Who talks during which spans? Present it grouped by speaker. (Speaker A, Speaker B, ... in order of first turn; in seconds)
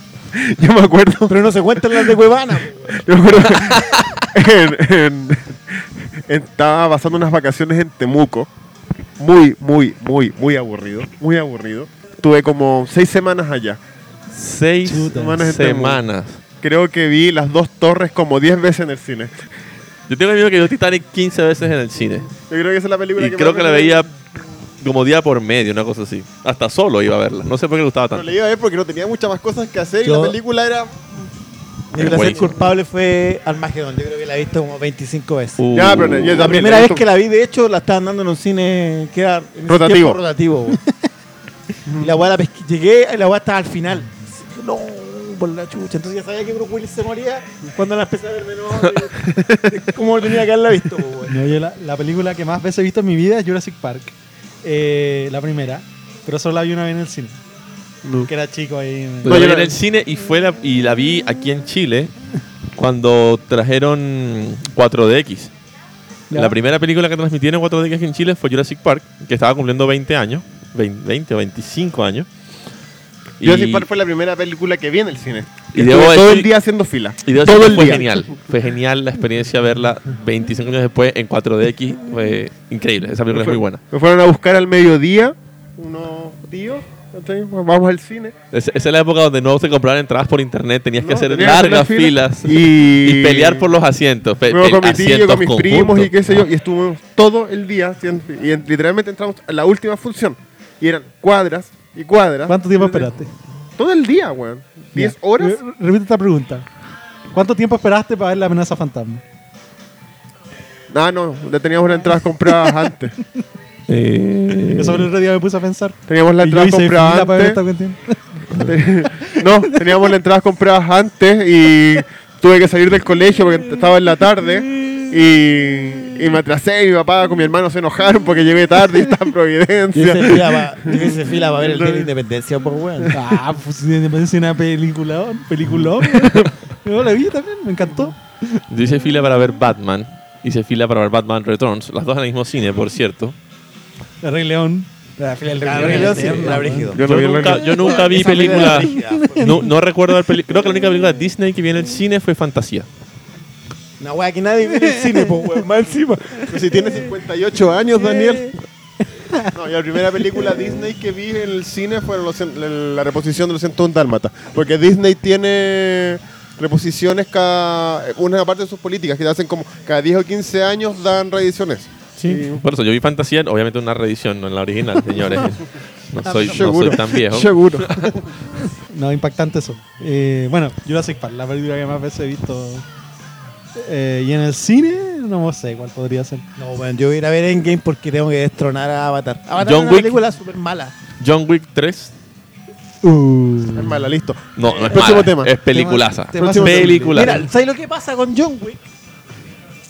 Speaker A: 0.3-2.2, 2.9-8.5, 9.2-13.8, 15.1-16.0, 16.6-19.4, 22.5-24.0, 28.1-30.9, 32.0-32.6, 35.7-37.0, 39.7-40.2, 41.9-42.1, 49.2-49.8, 58.0-58.3, 59.2-59.8, 73.4-78.2, 83.3-88.3, 91.0-93.7, 94.5-103.1, 103.8-105.6, 110.9-113.1, 116.1-117.6, 118.6-132.1, 146.9-148.4, 156.5-158.5, 159.5-172.6, 176.2-178.3, 193.7-195.6, 196.3-197.1
Speaker B: 1.3-3.0, 30.0-30.4, 31.9-35.6, 36.3-40.8, 42.0-51.4, 129.9-133.1, 145.6-149.6, 154.0-156.9, 158.1-158.5, 186.6-190.9, 196.6-198.8
Speaker C: 3.7-4.1, 14.3-16.4, 20.1-22.3, 23.2-24.1, 24.8-28.3, 31.9-32.5, 35.6-36.5, 59.2-62.1, 62.8-65.5, 66.3-72.3, 73.4-73.8, 75.7-76.5, 77.2-83.8, 88.5-96.3, 113.9-115.1, 138.7-143.3, 145.8-146.1, 147.0-152.9, 172.2-178.1, 189.6-190.2, 191.2-192.1, 194.6-197.5
Speaker D: 14.8-15.5, 51.3-57.4, 58.3-59.4, 102.5-103.3, 104.9-106.7, 107.3-109.2, 114.7-118.2, 119.0-119.8, 133.1-138.6, 144.2-146.9, 148.5-149.7, 154.8-155.3, 178.7-182.8, 183.8-186.4, 193.0-194.1, 195.7-197.1